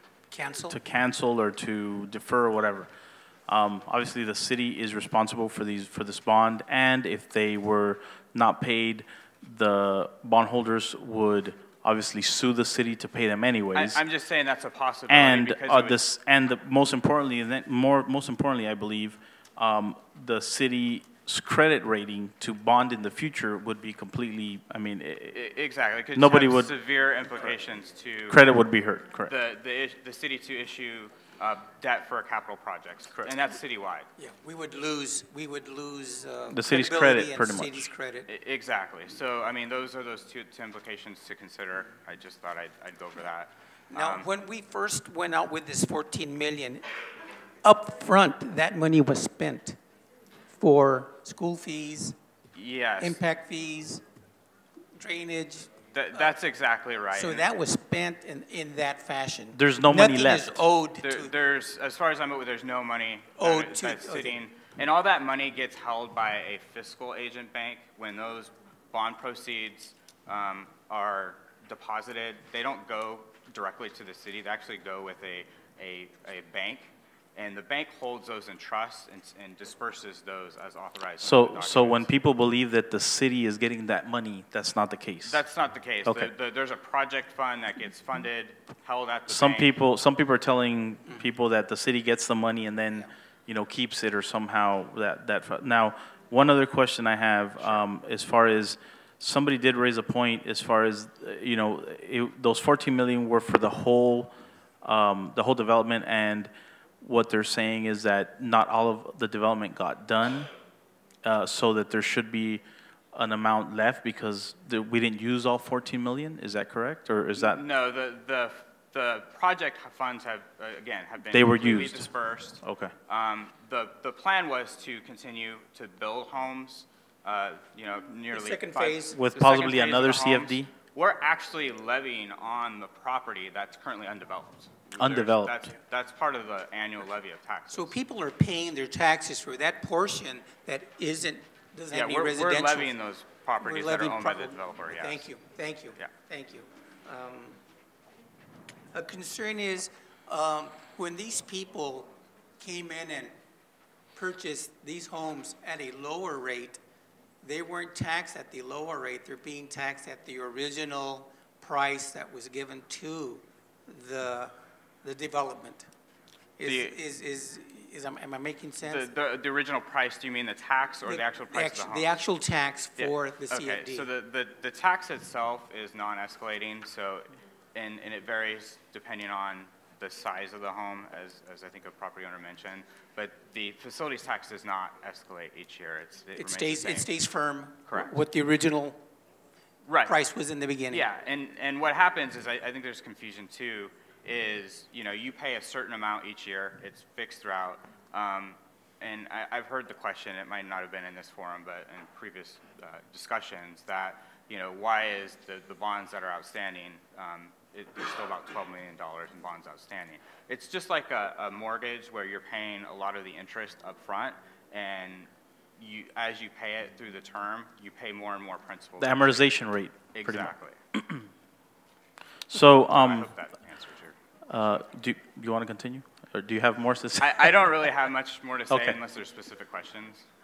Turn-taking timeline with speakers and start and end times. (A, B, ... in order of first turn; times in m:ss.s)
0:00.3-0:00.8 A
0:00.7-0:02.9 B
0:03.5-0:14.0 B
0:13.8-0:16.0 C
0:15.1-0:25.4 B
0:25.3-0:28.4 C
0:26.2-0:26.7 B
0:28.3-0:29.3 B
0:29.3-0:34.1 C
0:34.2-0:38.3 A
0:36.5-0:37.9 B
0:38.3-0:44.3 C
0:43.9-0:46.9 A
0:47.6-0:49.8 A
0:50.5-0:52.2 A
0:52.6-0:53.2 C
0:53.0-0:54.0 A
0:55.0-0:56.4 A
0:55.9-0:57.5 C
0:57.1-1:01.3 A
0:59.5-1:00.6 B
1:01.0-1:22.1 C
1:03.4-1:04.4 A
1:21.2-1:25.4 B
1:25.3-1:29.8 C
1:26.0-1:26.3 B
1:29.3-1:46.5 B
1:47.0-1:50.5 B
1:51.2-1:52.6 B
1:53.1-1:57.6 B
1:57.4-2:17.9 C
2:01.3-2:02.1 B
2:02.6-2:02.9 B
2:08.3-2:10.3 A
2:09.1-2:10.7 B
2:15.0-2:15.7 B
2:17.7-2:23.0 A
2:21.9-2:25.3 C
2:23.6-2:27.6 A
2:28.9-2:33.4 A
2:34.2-2:36.8 A
2:37.4-2:45.9 A
2:46.6-2:49.1 A
2:46.6-2:47.0 C
2:48.8-2:52.2 C
2:51.0-2:54.1 A
2:53.0-3:07.1 C
3:06.4-3:09.0 A
3:07.9-3:08.2 C
3:09.9-3:10.2 C
3:10.0-3:11.1 A
3:10.9-3:39.5 C
3:39.0-3:41.3 B
3:40.1-3:40.8 C
3:42.5-3:43.3 B
3:42.6-3:44.2 C
3:44.5-3:47.8 B
3:47.2-3:50.2 C
3:48.7-3:49.0 B